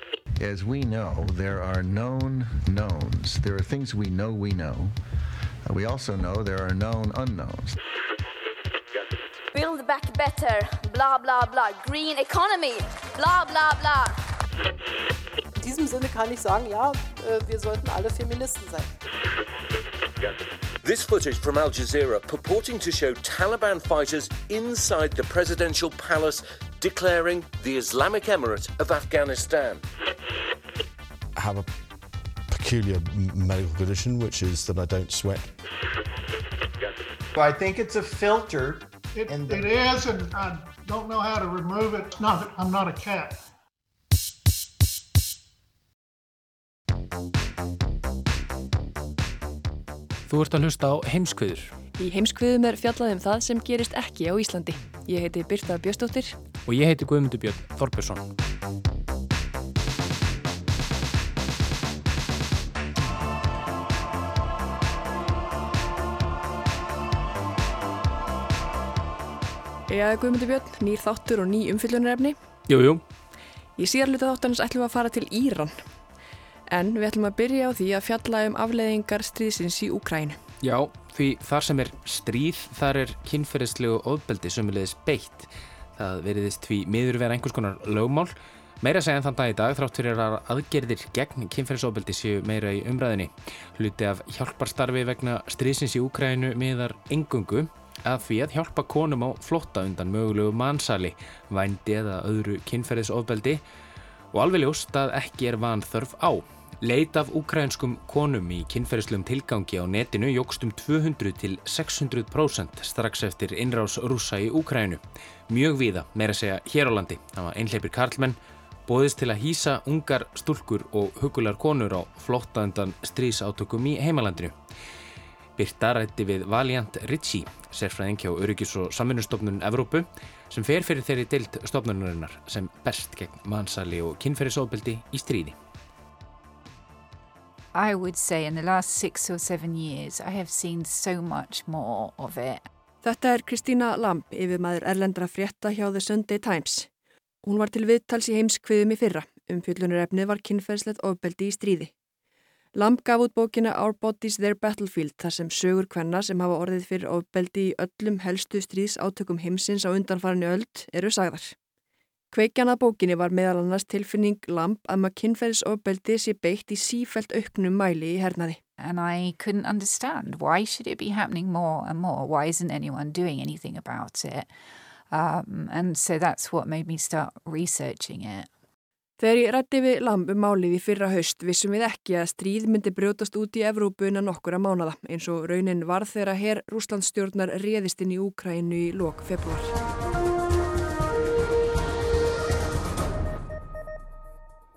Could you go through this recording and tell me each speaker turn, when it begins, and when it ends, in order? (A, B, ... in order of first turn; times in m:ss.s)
0:00.4-0:05.0 A
0:05.6-0:07.8 A
0:09.5-0:14.2 B
0:15.6-0:18.9 C
0:20.8-0:29.8 D
0:31.4-0:31.7 E
0:32.5-0:35.5 E
0:37.4-0:39.7 F
0:39.1-0:43.4 G
0:50.3-0:51.7 H
0:52.0-0:56.3 I
0:56.6-0:58.3 H
1:09.9-1:12.4 I
1:12.7-1:13.0 H
1:13.8-1:15.8 I
1:16.7-1:20.4 I
1:20.6-1:43.6 H
1:44.3-2:04.6 H
2:05.6-2:15.6 H
2:17.7-2:22.7 J
2:23.0-2:26.9 I
2:27.4-2:31.9 I
2:32.8-2:41.5 I
2:42.3-2:48.6 I
2:48.8-2:54.5 J
2:55.1-2:58.5 J
2:59.2-3:09.7 I